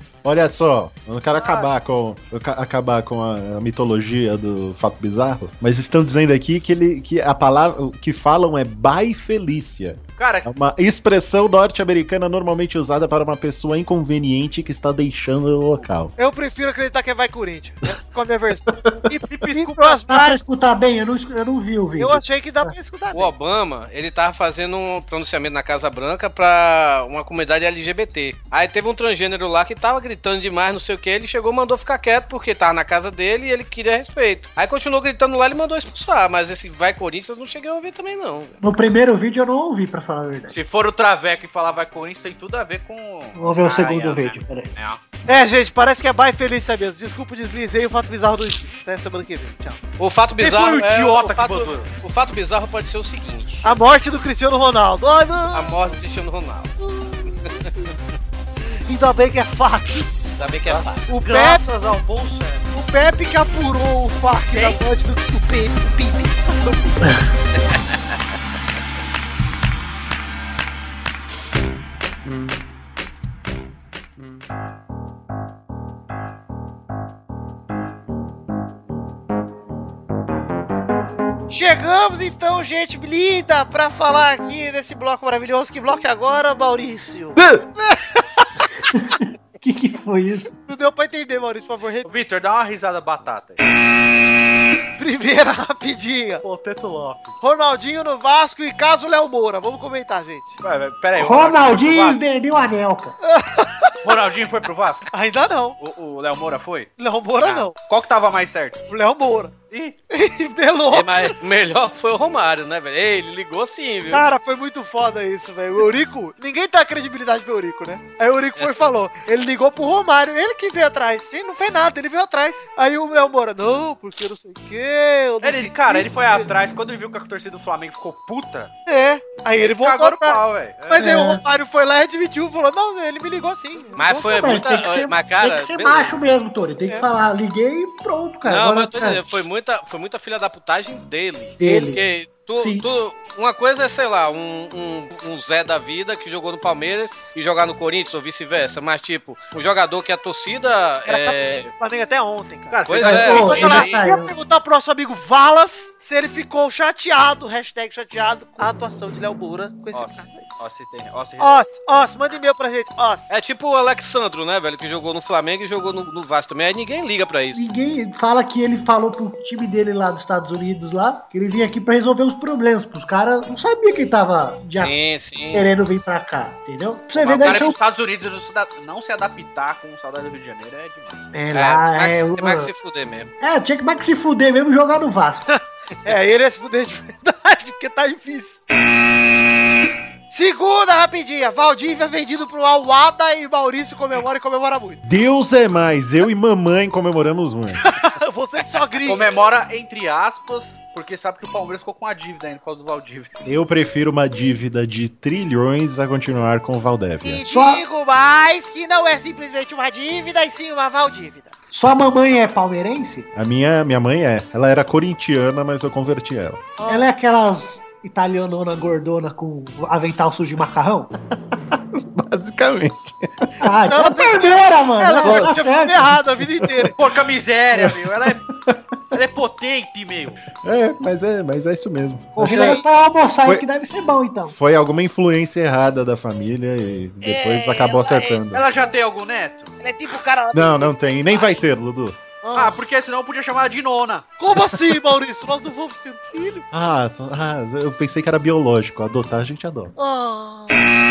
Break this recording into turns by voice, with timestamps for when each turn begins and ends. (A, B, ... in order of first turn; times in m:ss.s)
0:00.2-0:16.1 A
0:01.4-0:01.7 B
0:10.2-0:10.5 B
0:16.2-0:20.4 C
0:19.3-0:20.1 B
0:20.1-0:22.7 D
0:22.0-0:23.3 C
0:23.1-0:38.6 E
0:38.6-0:40.5 D
0:40.5-0:45.0 B
0:43.3-0:44.7 D
0:45.3-0:49.8 C
0:50.0-0:53.7 E
0:50.4-0:51.9 B
0:53.6-0:55.9 C
0:55.5-0:56.8 E
0:56.8-0:57.8 C
0:57.4-0:57.9 E
0:58.8-1:00.1 C
1:00.4-1:01.0 E
1:00.6-1:02.7 B
1:01.1-1:01.6 C
1:02.7-1:06.6 C
1:04.5-1:04.8 B
1:21.5-1:28.0 C
1:28.9-1:30.5 D
1:30.7-1:32.1 C
1:32.0-1:33.6 B
1:35.0-1:36.4 C
1:36.4-1:37.4 B
1:37.4-1:40.6 C
1:40.6-1:42.2 B
1:41.2-1:43.2 D
1:43.2-1:44.0 C
1:44.0-1:45.1 B
1:45.1-1:45.8 C
1:45.8-1:48.8 B
1:47.0-1:47.7 C
1:48.9-1:49.5 C
1:49.7-1:50.0 B
1:50.1-1:51.2 C
1:50.9-1:54.2 E
1:54.1-2:06.5 C
2:05.4-2:08.7 B
2:08.8-2:14.5 C
2:09.6-2:11.2 B
2:10.9-2:11.4 D
2:14.0-2:16.1 E
2:14.1-2:19.5 D
2:18.4-2:31.7 E
2:21.6-2:22.0 D
2:22.5-2:22.8 D
2:31.1-2:40.5 C
2:32.7-2:33.9 B
2:32.9-2:33.9 E
2:33.0-2:34.3 D
2:39.9-2:41.5 B
2:41.4-2:43.3 C
2:43.3-2:47.6 E
2:47.5-2:54.9 D
2:54.7-2:55.7 E
2:55.5-2:57.8 D
2:57.2-3:01.3 B
3:01.3-3:02.7 D
3:01.5-3:03.3 E
3:03.4-3:05.5 D
3:06.0-3:08.6 C
3:10.3-3:15.0 C
3:15.0-3:17.8 A
3:17.8-3:19.4 C
3:19.0-3:23.4 B
3:23.4-3:27.4 A
3:27.2-3:31.6 C
3:27.4-3:27.8 D
3:31.7-3:33.3 D
3:33.3-3:36.7 A
3:36.8-3:37.1 C
3:36.8-3:41.1 D
3:42.1-3:43.5 A
3:43.6-3:46.2 D
3:43.9-3:47.0 C
3:45.2-3:45.6 A
3:46.6-3:46.9 A
3:47.0-3:48.4 B
3:47.7-3:48.8 A
3:49.1-3:50.4 B
3:50.5-3:52.8 A
3:52.4-3:54.5 D
3:52.5-3:52.8 C
3:54.5-3:58.6 A
3:57.2-3:58.4 C
3:58.5-3:59.7 B
3:59.8-4:01.6 C
4:00.5-4:02.2 A
4:02.4-4:02.8 C
4:02.5-4:04.3 B
4:04.4-4:06.6 C
4:06.7-4:09.9 A
4:10.0-4:10.7 C